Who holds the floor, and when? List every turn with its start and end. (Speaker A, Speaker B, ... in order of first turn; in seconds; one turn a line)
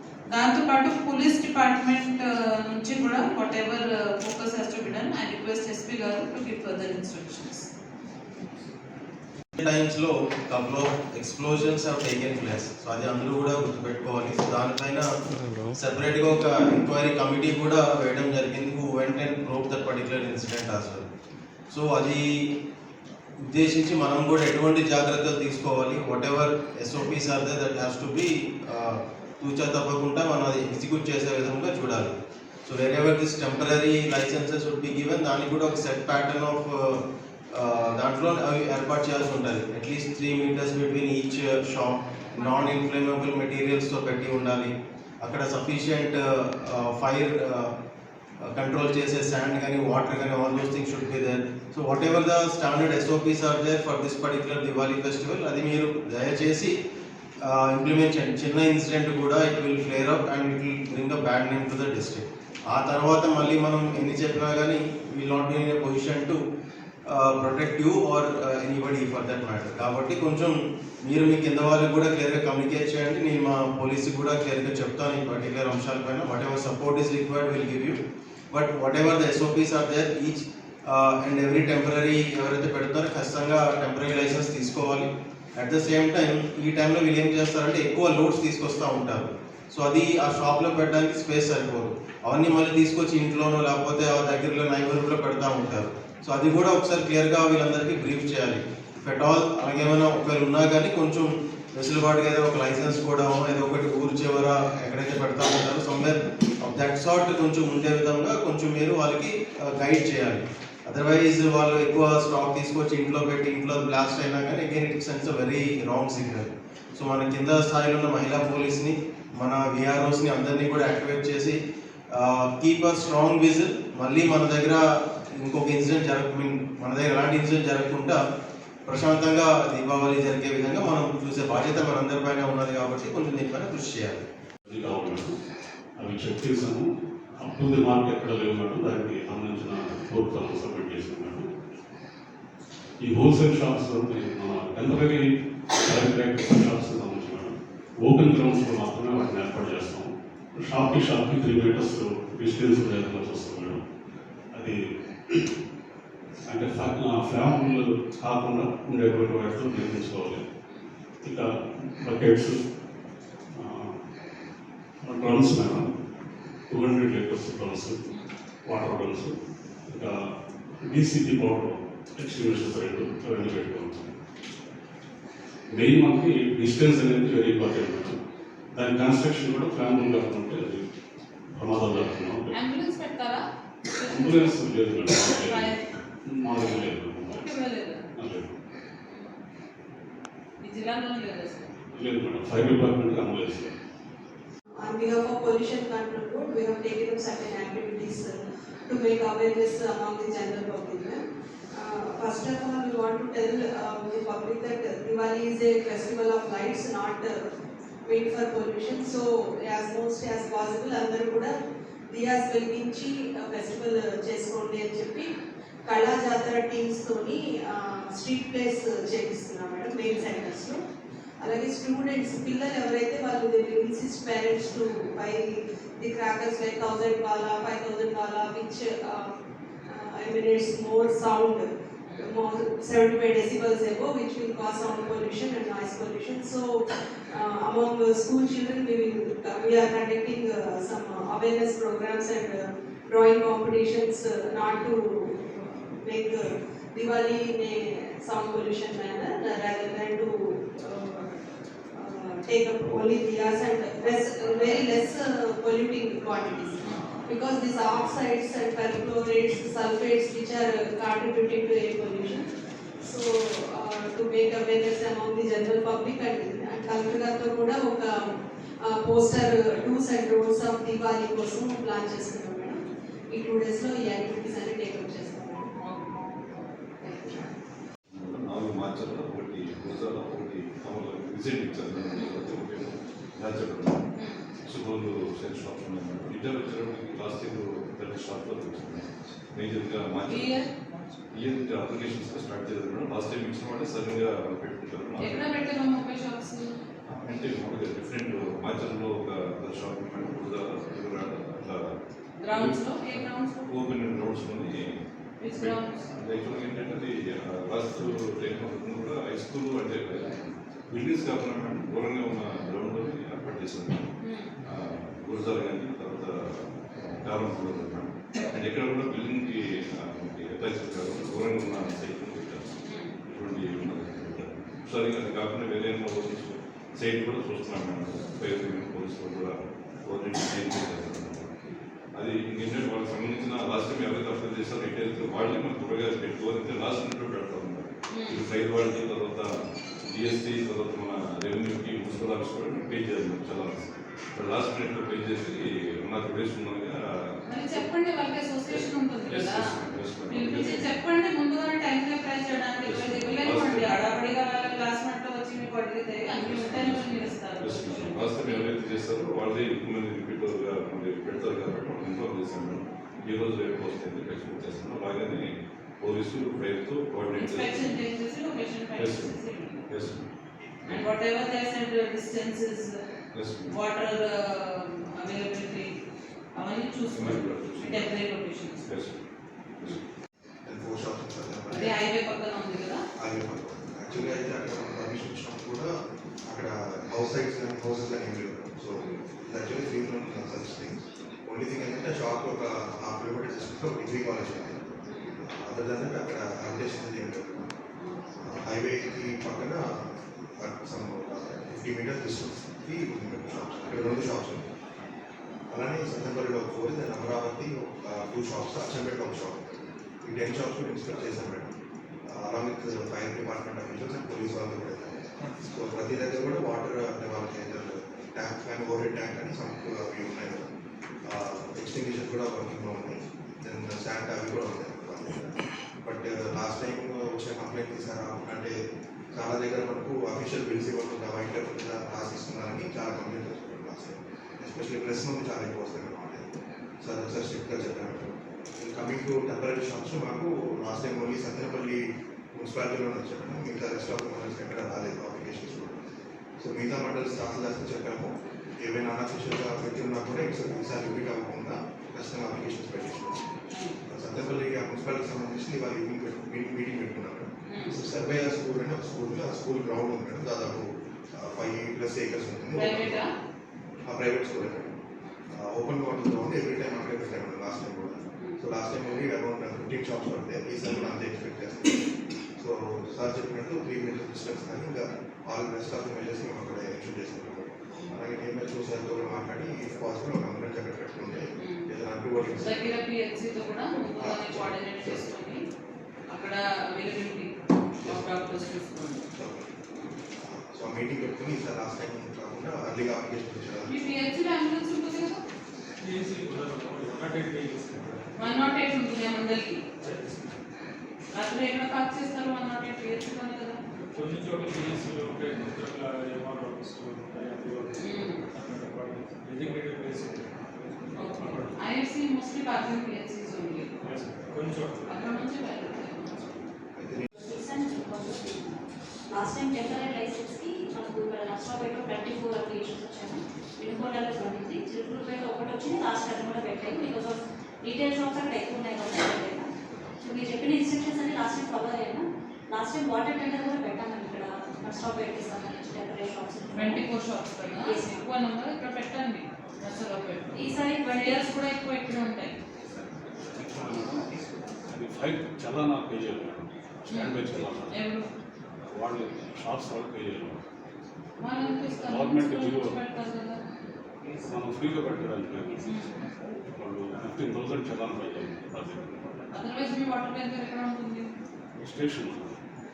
Speaker A: 0.3-7.7
Speaker B: 9.6-15.1
Speaker B: 15.8-21.1
Speaker B: 21.7-22.3
Speaker B: 23.4-32.1
Speaker B: 32.7-44.7
Speaker B: 45.2-47.7
Speaker B: 48.4-56.7
Speaker B: 57.4-66.4
Speaker B: 67.1-78.0
Speaker B: 78.5-121.6
Speaker B: 122.1-124.8
Speaker B: 125.4-128.2
Speaker B: 128.9-134.2
Speaker C: 134.7-135.3
Speaker C: 136.0-136.9
Speaker C: 137.4-141.4
Speaker C: 143.0-145.3
Speaker C: 145.8-153.8
Speaker C: 154.5-154.8
Speaker C: 156.5-160.4
Speaker C: 162.0-162.6
Speaker C: 163.6-163.9
Speaker C: 165.0-165.9
Speaker C: 166.7-167.9
Speaker C: 168.7-169.3
Speaker C: 169.9-170.2
Speaker C: 170.8-174.1
Speaker C: 175.7-178.2
Speaker C: 178.8-180.8
Speaker C: 181.5-182.5
Speaker A: 182.5-183.4
Speaker A: 183.9-184.6
Speaker C: 184.1-185.7
Speaker A: 185.4-185.8
Speaker C: 186.3-187.5
Speaker A: 187.3-188.0
Speaker C: 188.2-188.5
Speaker A: 189.1-189.4
Speaker A: 190.6-191.7
Speaker C: 191.9-193.7
Speaker D: 194.8-198.3
Speaker D: 198.9-201.2
Speaker D: 201.8-207.4
Speaker D: 208.1-211.5
Speaker D: 212.1-215.3
Speaker D: 215.9-220.8
Speaker A: 220.1-220.4
Speaker D: 221.4-229.3
Speaker D: 229.9-251.3
Speaker D: 251.9-262.4
Speaker D: 263.0-268.1
Speaker D: 268.8-272.8
Speaker D: 273.3-275.7
Speaker A: 275.8-276.2
Speaker A: 277.0-277.3
Speaker E: 278.1-284.0
Speaker E: 284.7-290.6
Speaker A: 290.3-290.7
Speaker E: 291.3-295.5
Speaker A: 295.2-296.6
Speaker E: 297.1-301.8
Speaker A: 302.4-303.6
Speaker E: 302.5-302.8
Speaker E: 303.7-304.7
Speaker A: 305.4-306.1
Speaker E: 305.6-314.1
Speaker A: 314.2-314.5
Speaker E: 314.7-316.4
Speaker E: 316.9-322.6
Speaker A: 322.9-323.1
Speaker E: 323.2-329.5
Speaker E: 330.1-331.5
Speaker E: 332.1-339.5
Speaker A: 338.1-338.4
Speaker E: 340.1-347.9
Speaker A: 347.5-349.6
Speaker E: 348.7-351.0
Speaker A: 350.3-358.6
Speaker E: 352.8-354.0
Speaker E: 356.3-368.0
Speaker A: 367.4-369.9
Speaker E: 369.0-370.2
Speaker E: 370.8-371.1
Speaker A: 370.9-373.0
Speaker E: 373.3-373.8
Speaker A: 373.7-375.9
Speaker A: 376.5-378.9
Speaker E: 377.1-378.3
Speaker E: 378.8-379.2
Speaker F: 380.6-381.9
Speaker A: 381.7-383.0
Speaker F: 383.2-385.9
Speaker F: 386.5-397.7
Speaker A: 395.1-395.4
Speaker F: 398.4-399.9
Speaker F: 400.6-404.6
Speaker F: 405.7-411.7
Speaker F: 412.3-420.7
Speaker F: 421.2-425.5
Speaker F: 426.0-428.7
Speaker F: 429.3-436.4
Speaker F: 437.0-442.0
Speaker F: 442.5-446.0
Speaker F: 446.6-453.4
Speaker F: 454.1-463.1
Speaker A: 457.7-457.9
Speaker A: 462.8-463.3
Speaker F: 464.0-464.9
Speaker F: 465.5-471.9
Speaker F: 472.6-482.9
Speaker A: 481.6-481.9
Speaker A: 482.6-485.6
Speaker F: 484.1-485.2
Speaker A: 486.3-489.2
Speaker F: 489.3-489.7
Speaker F: 490.4-493.9
Speaker A: 493.9-495.4
Speaker G: 496.0-498.7
Speaker A: 498.4-499.8
Speaker G: 500.0-500.5
Speaker A: 501.3-503.8
Speaker G: 504.1-511.7
Speaker A: 508.0-508.4
Speaker A: 511.1-513.9
Speaker G: 514.0-515.3
Speaker A: 515.0-516.6
Speaker F: 517.0-517.3
Speaker H: 517.4-518.8
Speaker H: 519.3-529.7
Speaker H: 530.2-537.0
Speaker A: 536.7-540.6
Speaker H: 537.8-538.3
Speaker H: 540.5-541.5
Speaker A: 541.1-542.5
Speaker C: 543.6-544.3
Speaker C: 544.9-548.0
Speaker A: 547.1-548.2
Speaker C: 548.9-550.6
Speaker A: 551.4-553.6
Speaker C: 552.1-552.9
Speaker C: 554.4-555.8
Speaker A: 555.8-556.2
Speaker C: 556.8-559.4
Speaker A: 559.5-561.3
Speaker C: 561.8-562.5